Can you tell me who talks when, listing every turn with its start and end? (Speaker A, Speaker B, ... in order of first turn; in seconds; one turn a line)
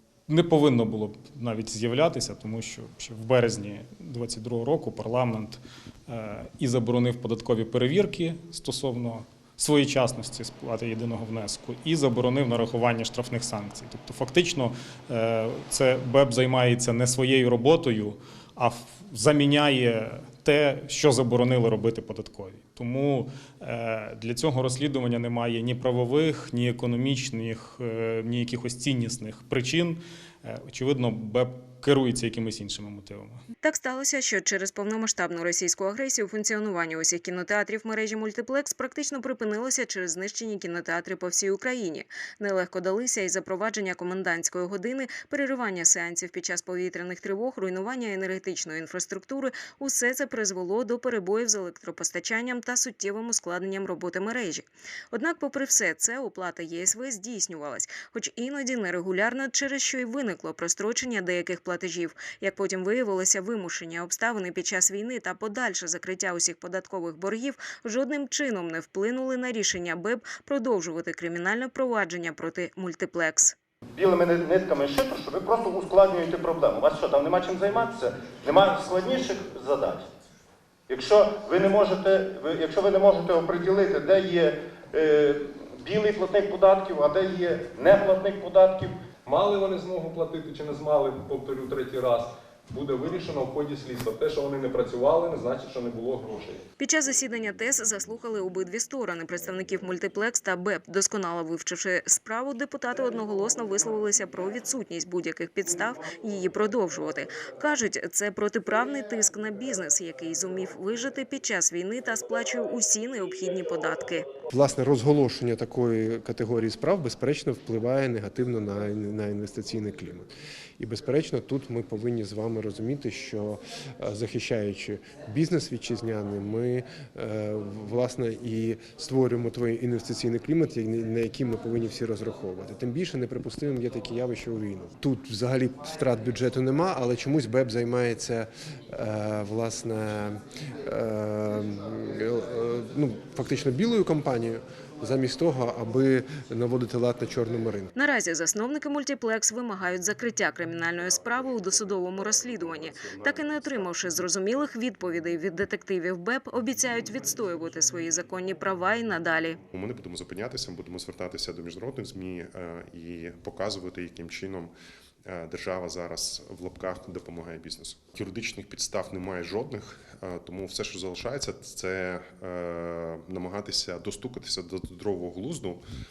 Speaker A: 0.3-33.4
Speaker B: 33.6-73.5
Speaker C: 74.0-80.0
Speaker C: 80.9-89.0
Speaker D: 89.2-96.6
Speaker B: 96.8-114.2
Speaker E: 114.5-147.9
Speaker B: 147.9-159.6
Speaker F: 159.7-164.7
Speaker F: 165.2-175.8